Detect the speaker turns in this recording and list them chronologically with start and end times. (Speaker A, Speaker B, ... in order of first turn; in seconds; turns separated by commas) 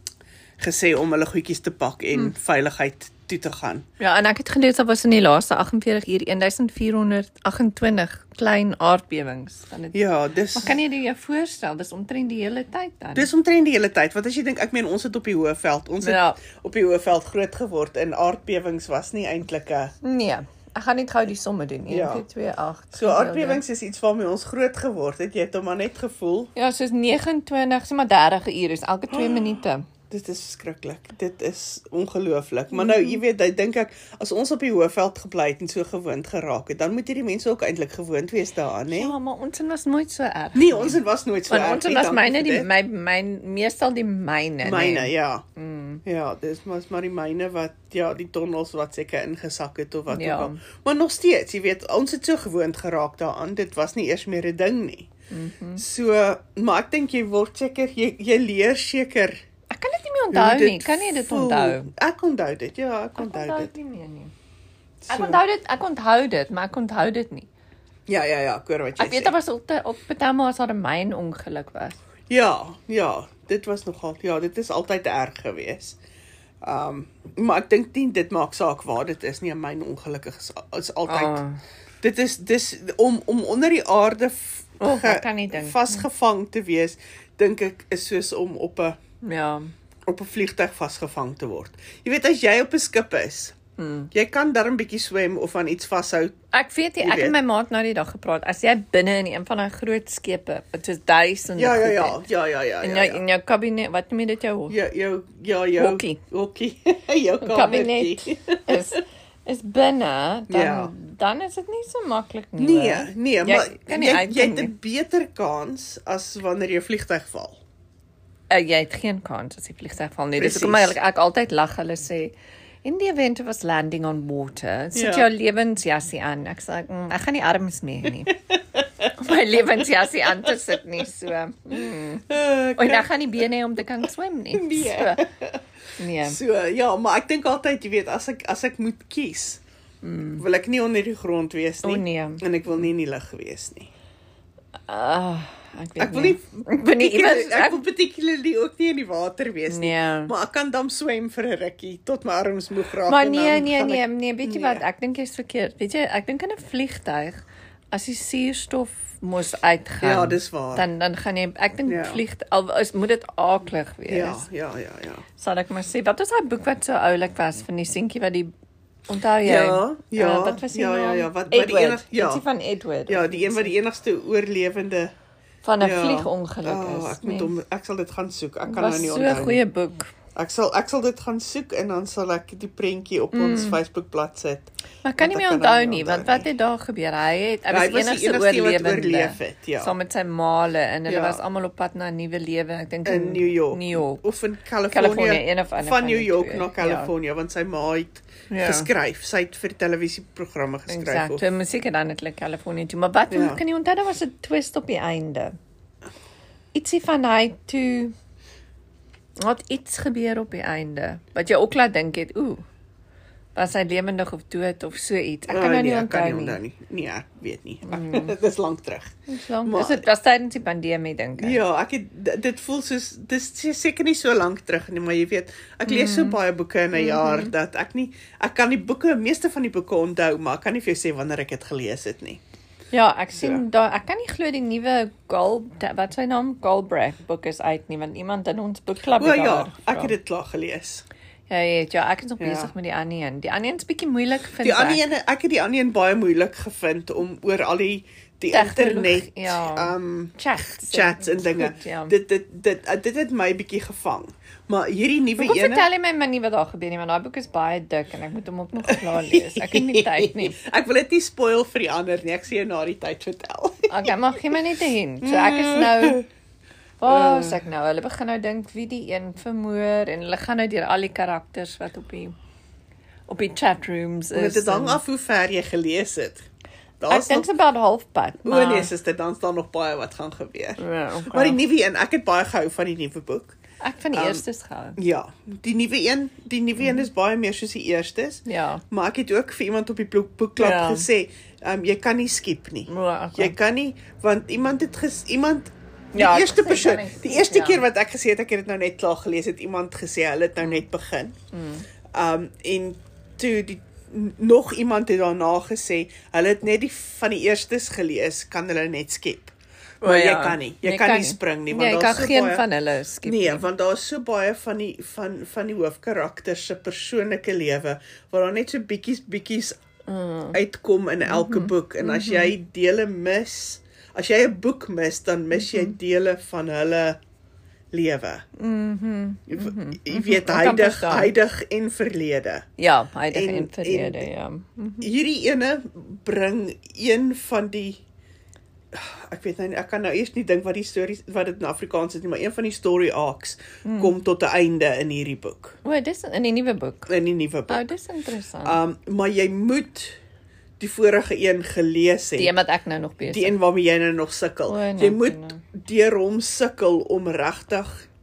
Speaker A: 0.6-3.8, Speaker B: 4.0-10.0, Speaker A: 9.9-10.8, Speaker B: 10.5-13.3, Speaker A: 13.1-19.9, Speaker B: 16.0-16.4, Speaker B: 20.0-23.6, Speaker A: 21.9-22.2, Speaker A: 22.9-26.5, Speaker B: 26.5-29.8, Speaker A: 29.1-29.5, Speaker A: 30.1-39.1, Speaker B: 32.7-33.2, Speaker B: 38.9-46.0, Speaker A: 40.5-42.7, Speaker A: 44.6-45.4, Speaker A: 46.0-55.1, Speaker B: 50.1-50.6, Speaker B: 55.3-55.8, Speaker A: 55.8-59.4, Speaker B: 59.7-61.9, Speaker A: 60.3-63.7, Speaker B: 63.2-64.3, Speaker A: 65.0-65.4, Speaker B: 65.1-67.5, Speaker A: 68.1-69.4, Speaker B: 69.0-72.0, Speaker A: 72.3-76.0, Speaker A: 76.6-81.4, Speaker B: 81.1-81.6, Speaker A: 82.0-89.0, Speaker B: 84.8-86.0, Speaker B: 89.2-89.7, Speaker A: 90.1-93.5, Speaker B: 93.8-94.1, Speaker A: 94.1-96.3, Speaker B: 96.5-102.2, Speaker A: 97.0-97.3, Speaker A: 101.6-103.2, Speaker B: 102.8-104.8, Speaker A: 104.7-109.0, Speaker B: 105.8-106.2, Speaker B: 107.4-114.7, Speaker A: 110.5-110.9, Speaker A: 112.6-117.6, Speaker B: 118.5-128.3, Speaker A: 120.4-121.0, Speaker A: 124.9-125.3, Speaker A: 128.8-129.8, Speaker B: 129.2-135.2, Speaker A: 132.3-133.1, Speaker A: 134.5-135.6, Speaker B: 136.0-136.4, Speaker A: 136.2-139.6, Speaker B: 140.0-140.4, Speaker A: 140.4-143.9, Speaker B: 141.8-142.4, Speaker B: 144.9-147.8, Speaker A: 146.0-154.8, Speaker B: 149.7-150.3, Speaker B: 153.1-157.4, Speaker B: 157.9-164.4, Speaker A: 160.0-160.8, Speaker A: 161.8-162.2, Speaker A: 164.1-165.2, Speaker B: 165.4-168.5, Speaker B: 169.1-173.7, Speaker A: 169.4-172.4, Speaker A: 173.1-175.1, Speaker B: 175.6-177.5, Speaker A: 175.8-179.6, Speaker B: 178.7-180.1, Speaker A: 180.3-186.5, Speaker B: 183.3-183.8, Speaker B: 185.0-194.2, Speaker A: 187.7-189.9, Speaker A: 191.1-191.4, Speaker A: 193.0-201.4, Speaker B: 194.9-197.1, Speaker B: 198.5-198.9, Speaker B: 200.9-205.5, Speaker A: 203.3-203.6, Speaker B: 206.7-208.1, Speaker B: 209.4-212.6, Speaker B: 213.5-216.6, Speaker A: 215.5-219.1, Speaker B: 217.9-218.3, Speaker B: 219.3-221.6, Speaker A: 219.6-220.0, Speaker A: 221.4-232.4, Speaker B: 225.8-226.4, Speaker B: 226.9-227.5, Speaker B: 232.9-240.2, Speaker A: 239.1-241.0, Speaker B: 241.5-245.0, Speaker A: 242.4-242.7, Speaker A: 244.6-255.9, Speaker B: 248.5-252.1, Speaker B: 255.4-260.6, Speaker A: 258.9-264.1, Speaker B: 263.9-266.2, Speaker A: 265.2-266.2, Speaker B: 267.0-272.3, Speaker A: 267.1-267.6, Speaker B: 273.3-275.0, Speaker A: 274.3-276.5, Speaker A: 277.0-277.5, Speaker B: 277.1-278.9, Speaker A: 278.4-283.6, Speaker B: 280.8-281.6, Speaker B: 283.8-285.0, Speaker A: 284.1-284.4, Speaker A: 285.0-301.3, Speaker B: 286.8-287.1, Speaker B: 288.4-288.8, Speaker B: 290.6-291.1, Speaker B: 292.9-293.6, Speaker B: 296.1-297.8, Speaker B: 300.6-300.8, Speaker B: 301.5-301.9, Speaker A: 302.1-312.6, Speaker B: 310.0-313.6, Speaker A: 313.2-319.8, Speaker B: 320.1-320.6, Speaker A: 320.5-327.2, Speaker B: 321.2-322.5, Speaker B: 325.5-325.9, Speaker A: 327.9-328.4, Speaker B: 328.6-331.3, Speaker A: 329.5-332.6, Speaker B: 332.8-335.1, Speaker A: 333.3-334.2, Speaker A: 335.0-338.0, Speaker A: 338.9-345.8, Speaker B: 343.8-344.1, Speaker B: 345.8-347.1, Speaker A: 347.1-347.9, Speaker B: 347.7-348.8, Speaker A: 348.6-350.1, Speaker A: 350.8-352.5, Speaker B: 352.4-353.6, Speaker A: 353.3-357.9, Speaker B: 354.7-355.6